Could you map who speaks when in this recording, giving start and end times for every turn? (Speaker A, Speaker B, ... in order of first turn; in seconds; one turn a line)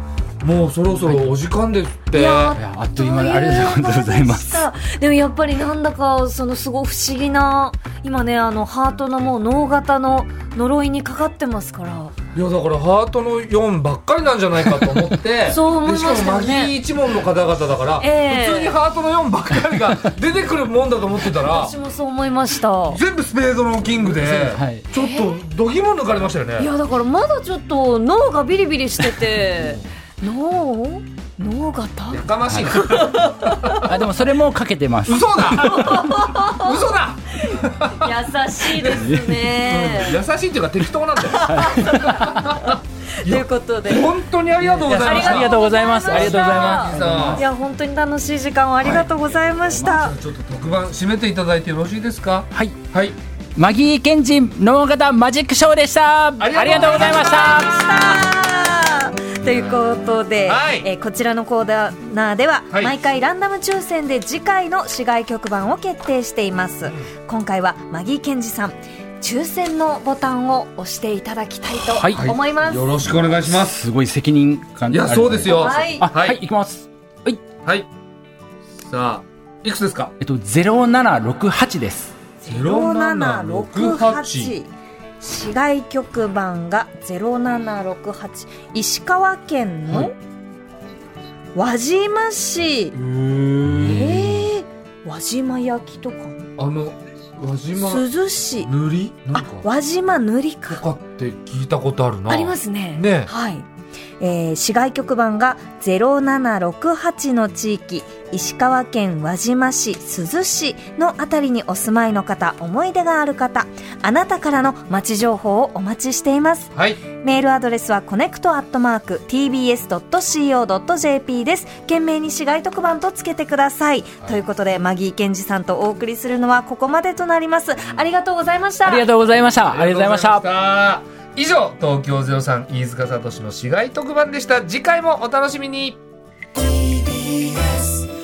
Speaker A: 0.4-2.6
Speaker B: 0.9-1.4
Speaker C: 2.1-12.1
Speaker B: 2.3-4.6
Speaker A: 12.3-21.7
Speaker B: 14.8-15.2
Speaker C: 15.5-16.7
Speaker C: 18.0-18.8
Speaker C: 21.4-23.0
Speaker A: 22.9-26.7
Speaker B: 24.0-24.9
Speaker C: 24.9-25.3
Speaker C: 26.6-33.9
Speaker A: 29.1-29.8
Speaker A: 32.1-33.9
Speaker B: 32.5-32.8
Speaker B: 33.8-36.1
Speaker A: 35.1-38.1
Speaker C: 35.5-40.2
Speaker A: 38.8-41.5
Speaker B: 38.8-39.5
Speaker C: 41.3-44.1
Speaker B: 41.4-42.7
Speaker A: 42.2-47.4
Speaker B: 44.6-47.5
Speaker C: 44.8-50.1
Speaker A: 49.8-53.1
Speaker B: 52.5-52.8
Speaker B: 53.5-58.3
Speaker A: 56.4-58.2
Speaker C: 56.7-73.0
Speaker A: 60.4-60.9
Speaker B: 71.9-72.4
Speaker A: 72.1-73.8
Speaker B: 73.0-77.4
Speaker A: 74.9-76.4
Speaker C: 75.4-76.1
Speaker A: 78.8-80.1
Speaker B: 80.2-82.1
Speaker C: 82.4-90.1
Speaker A: 82.4-84.5
Speaker C: 91.5-93.0
Speaker A: 93.0-94.1
Speaker B: 93.6-94.5
Speaker C: 93.8-96.5
Speaker A: 96.6-98.0
Speaker C: 97.8-98.7
Speaker A: 98.6-99.6
Speaker C: 99.3-100.8
Speaker A: 100.7-103.3
Speaker C: 102.3-103.7
Speaker C: 104.2-129.1
Speaker B: 128.8-130.4
Speaker A: 129.7-136.0
Speaker C: 137.0-137.7